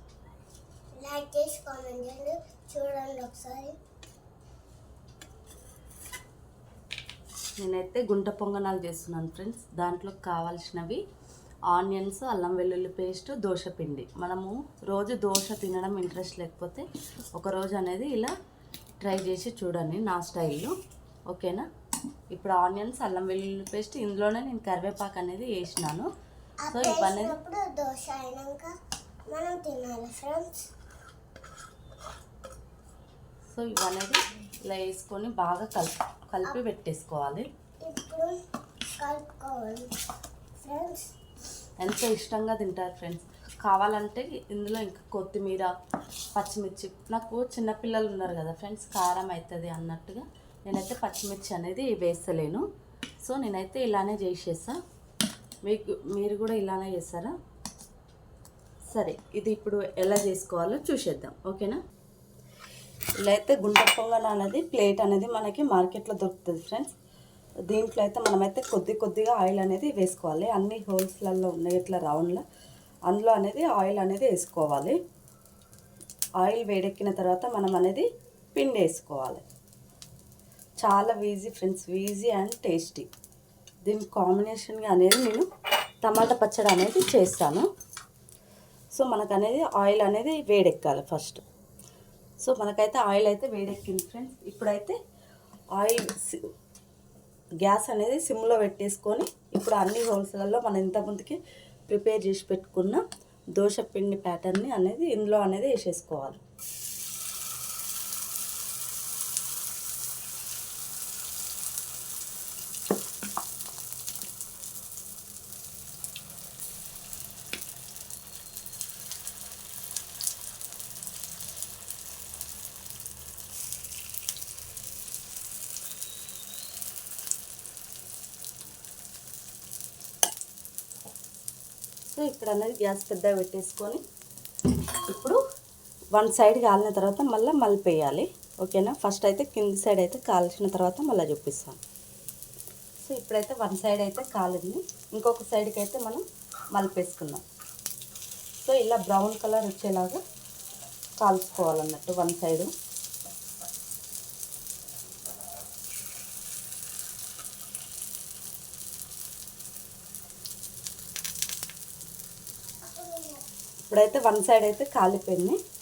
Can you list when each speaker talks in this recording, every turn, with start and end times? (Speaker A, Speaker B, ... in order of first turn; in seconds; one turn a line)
Speaker A: 1.0-3.8
Speaker B: 7.6-11.0
Speaker B: 11.7-18.3
Speaker B: 19.0-20.7
Speaker B: 21.3-21.6
Speaker B: 22.3-26.1
Speaker A: 26.6-28.7
Speaker B: 26.7-27.4
Speaker A: 29.3-30.7
Speaker B: 33.5-37.5
Speaker A: 37.8-38.4
Speaker A: 39.0-39.9
Speaker A: 40.6-41.1
Speaker B: 41.8-45.7
Speaker B: 46.4-52.6
Speaker B: 53.2-54.8
Speaker B: 55.6-57.3
Speaker B: 58.9-61.8
Speaker B: 63.2-66.9
Speaker B: 67.7-72.4
Speaker B: 73.1-75.0
Speaker B: 76.4-79.4
Speaker B: 80.8-83.1
Speaker B: 83.9-85.5
Speaker B: 86.0-87.7
Speaker B: 88.9-91.4
Speaker B: 92.4-95.0
Speaker B: 95.8-96.5
Speaker B: 97.6-103.0
Speaker B: 103.6-106.4
Speaker B: 132.1-134.0
Speaker B: 135.1-135.4
Speaker B: 136.1-141.8
Speaker B: 143.0-147.4
Speaker B: 148.6-150.2
Speaker B: 151.2-152.7
Speaker A: 162.9-163.4
Speaker B: 163.9-165.6